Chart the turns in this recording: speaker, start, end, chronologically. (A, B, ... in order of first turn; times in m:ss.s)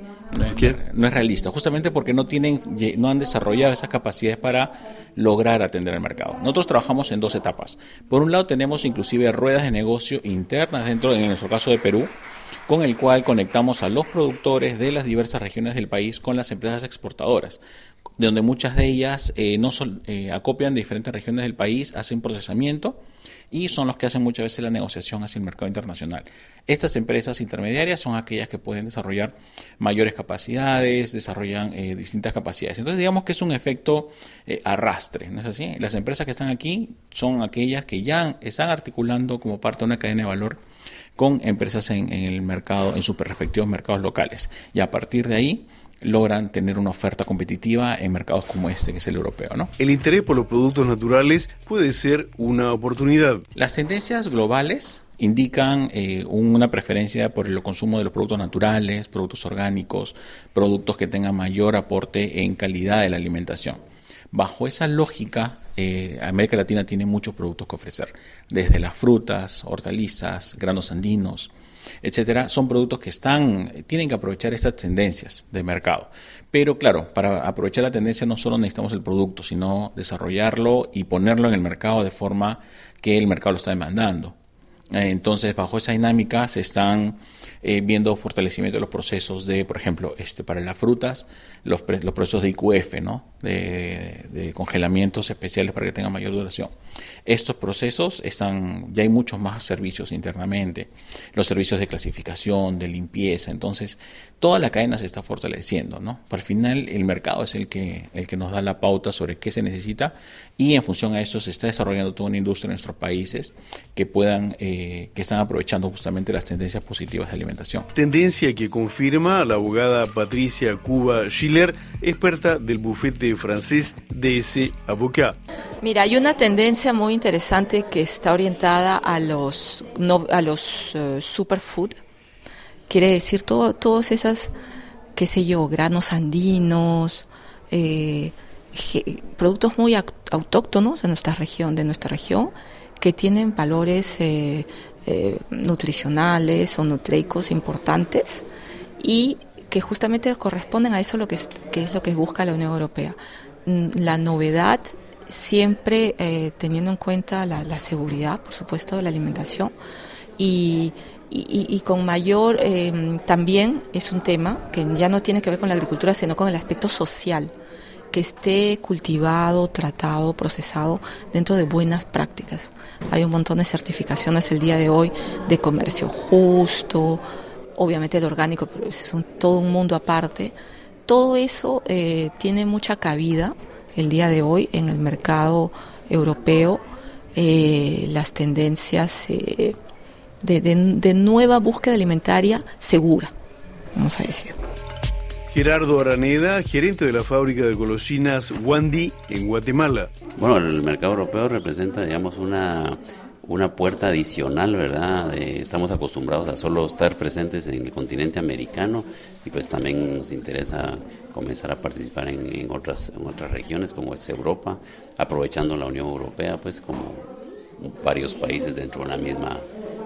0:00.3-0:12.1 A
0:00.4-0:00.8 B
0:12.7-0:17.6 A
0:18.2-0:23.0 A
0:23.5-0:40.6 A
0:41.2-0:49.7 A
0:49.8-0:53.4 B
0:53.5-1:03.8 A
1:04.3-1:11.5 A
1:12.0-1:24.3 A
1:24.9-1:36.7 A
1:37.2-1:57.9 A
1:57.9-2:05.4 B
2:05.8-2:12.0 C
2:12.9-2:14.5 C
2:15.2-2:28.4 C
2:29.0-2:39.7 C
2:40.4-2:47.5 C
2:48.1-2:57.2 C
2:57.7-3:00.5 C
3:01.0-3:06.8 C
3:07.3-3:09.8 C
3:10.4-3:13.3 C
3:13.9-3:14.5 C
3:15.5-3:20.1 B
3:20.4-3:37.3 D
3:37.8-3:39.6 D